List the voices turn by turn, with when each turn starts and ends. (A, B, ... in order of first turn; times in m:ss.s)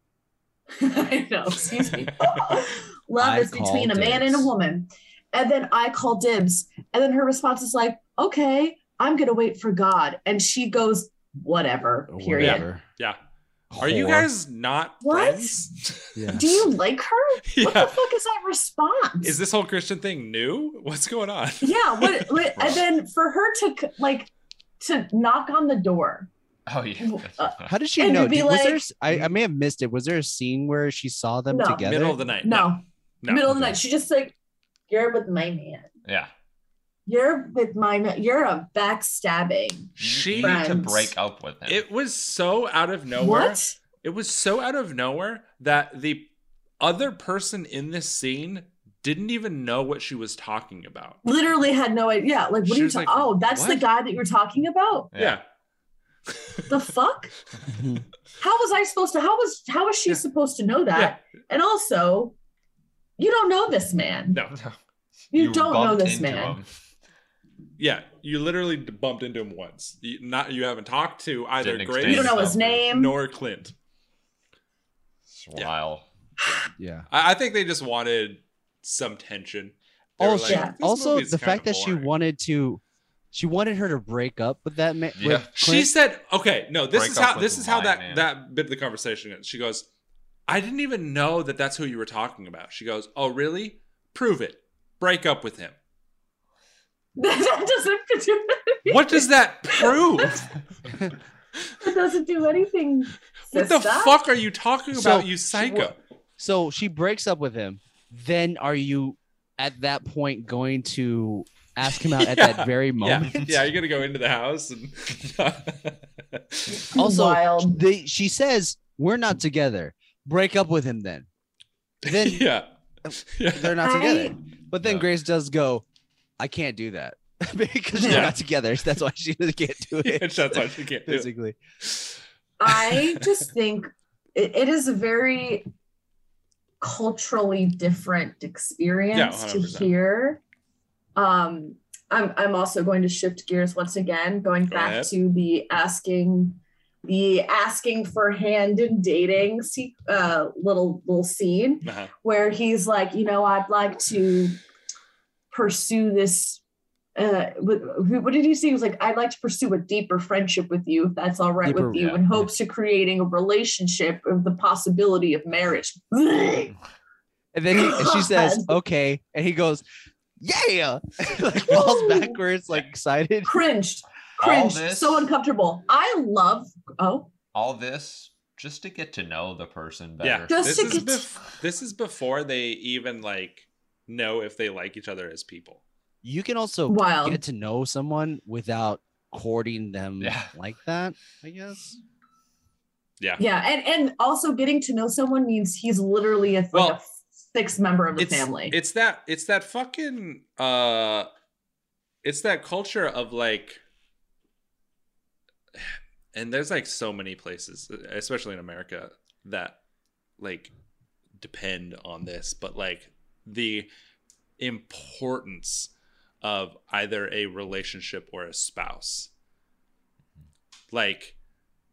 0:00.8-0:12.6 A
0:02.0-0:02.2 B
0:03.2-0:04.5 C
0:12.1-0:12.8 C
0:12.4-0:13.2 B
0:13.7-0:14.3 C
0:13.8-0:16.2 B
0:15.0-0:15.7 A
0:16.1-0:16.5 C
0:16.3-0:19.4 A
0:17.5-0:18.0 B
0:19.2-0:22.5 B
0:21.6-0:24.3 A
0:22.6-0:22.8 D
0:24.8-0:26.3 A
0:26.7-0:27.7 D
0:27.0-0:28.9 A
0:27.7-0:32.2 C
0:31.5-0:34.3 A
0:31.8-0:33.4 B
0:33.4-0:33.8 C
0:34.9-0:35.9 A
0:36.0-0:36.3 D
0:37.0-0:41.1 A
0:40.0-0:41.8 D
0:40.0-0:40.6 B
0:41.7-0:51.2 B
0:43.2-0:43.8 A
0:51.2-0:55.1 A
0:52.6-0:53.9 B
0:55.1-0:55.4 D
0:55.2-0:55.4 B
0:56.7-0:57.3 A
0:57.7-0:58.0 C
0:58.4-1:02.3 A
1:00.9-1:01.2 B
1:03.2-1:04.4 A
1:04.5-1:04.8 D
1:05.3-1:06.7 D
1:05.3-1:06.6 A
1:07.8-1:13.7 B
1:11.6-1:12.8 D
1:12.0-1:13.2 A
1:15.3-1:16.0 D
1:16.8-1:17.1 C
1:17.1-1:22.1 B
1:20.2-1:22.8 C
1:20.4-1:20.7 A
1:23.3-1:25.9 C
1:25.2-1:25.5 D
1:25.5-1:29.8 B
1:26.9-1:28.3 D
1:30.5-1:35.8 B
1:37.2-1:40.4 A
1:38.9-1:40.5 B
1:41.8-1:44.2 A
1:43.5-1:46.0 B
1:44.9-1:53.7 C
1:52.0-1:56.9 B
1:56.7-1:57.8 A
1:56.9-2:01.3 C
2:02.0-2:02.5 C
2:02.0-2:02.7 B
2:03.0-2:05.8 C
2:03.3-2:03.8 B
2:03.8-2:04.4 A
2:06.4-2:11.6 C
2:08.0-2:08.3 A
2:08.1-2:08.3 B
2:10.0-2:11.3 B
2:11.8-2:12.2 B
2:12.6-2:15.7 A
2:12.7-2:13.4 B
2:16.8-2:20.4 A
2:19.1-2:19.9 B
2:21.2-2:34.6 A
2:24.6-2:25.1 B
2:31.8-2:32.1 B
2:35.5-2:36.6 A
2:37.1-2:46.7 A
2:41.6-2:42.4 C
2:41.9-2:42.2 D
2:47.5-2:49.8 C
2:47.7-2:48.8 A
2:50.4-2:53.6 C
2:51.6-2:52.3 A
2:53.4-2:57.3 A
2:54.4-2:55.3 D
2:57.5-3:01.0 D
3:00.2-3:05.8 B
3:00.5-3:01.3 A
3:06.2-3:12.0 C
3:06.9-3:07.4 A
3:10.2-3:10.5 D
3:13.4-3:18.8 A
3:16.7-3:17.0 B
3:18.2-3:21.3 B
3:22.2-3:23.8 B
3:26.3-3:29.8 B
3:30.4-3:30.7 B
3:31.4-3:33.9 B
3:34.6-3:35.9 B
3:36.4-3:39.3 B
3:40.9-3:41.4 B